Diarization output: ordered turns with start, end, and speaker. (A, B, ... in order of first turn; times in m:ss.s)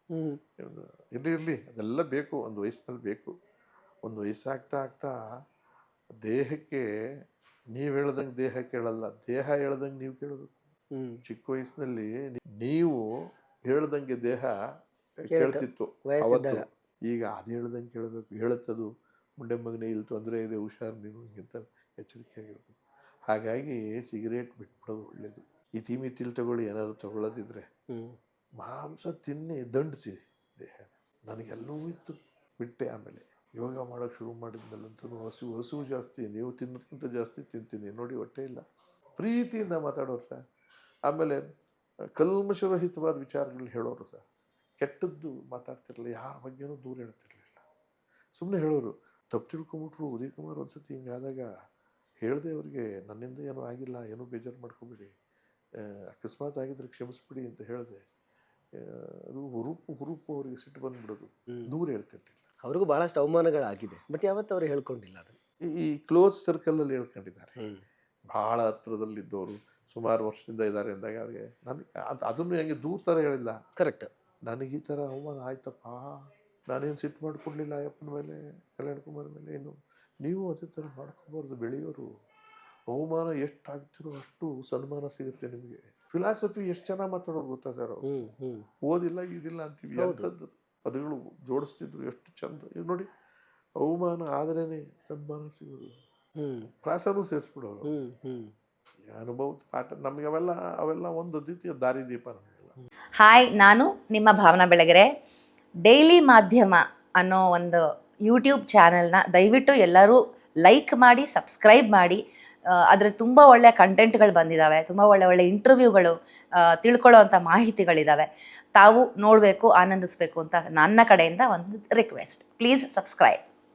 0:00.1-0:00.4 A
0:00.6-0:03.3 B
0:04.0-0:05.2 B
0:06.2-0:06.9 B
0:07.7-0:10.6 B
0:10.9-0:11.2 A
0:11.2-0:13.1 B
0:13.7-0:14.5 B
0:15.2-0:27.6 B
0:15.3-0:16.6 A
0:27.9-0:28.2 A
0:28.6-0:38.6 B
0:39.2-0:40.4 B
0:41.1-0:41.5 B
0:42.2-0:44.2 B
0:44.8-0:47.6 B
0:48.4-0:51.5 B
0:52.2-0:55.1 B
0:55.8-0:58.0 B
0:58.8-1:02.4 B
1:02.6-1:05.4 A
1:05.7-1:07.6 B
1:07.6-1:07.8 A
1:08.3-1:13.5 B
1:13.8-1:14.1 A
1:14.5-1:22.1 B
1:22.9-1:28.0 B
1:28.0-1:28.7 A
1:28.8-1:33.1 B
1:30.0-1:30.3 A
1:33.8-1:35.9 B
1:36.4-1:36.7 A
1:36.8-1:37.9 B
1:37.8-1:38.5 A
1:39.0-1:42.8 B
1:43.2-1:45.1 C
1:45.8-1:58.2 C
1:58.8-2:03.4 C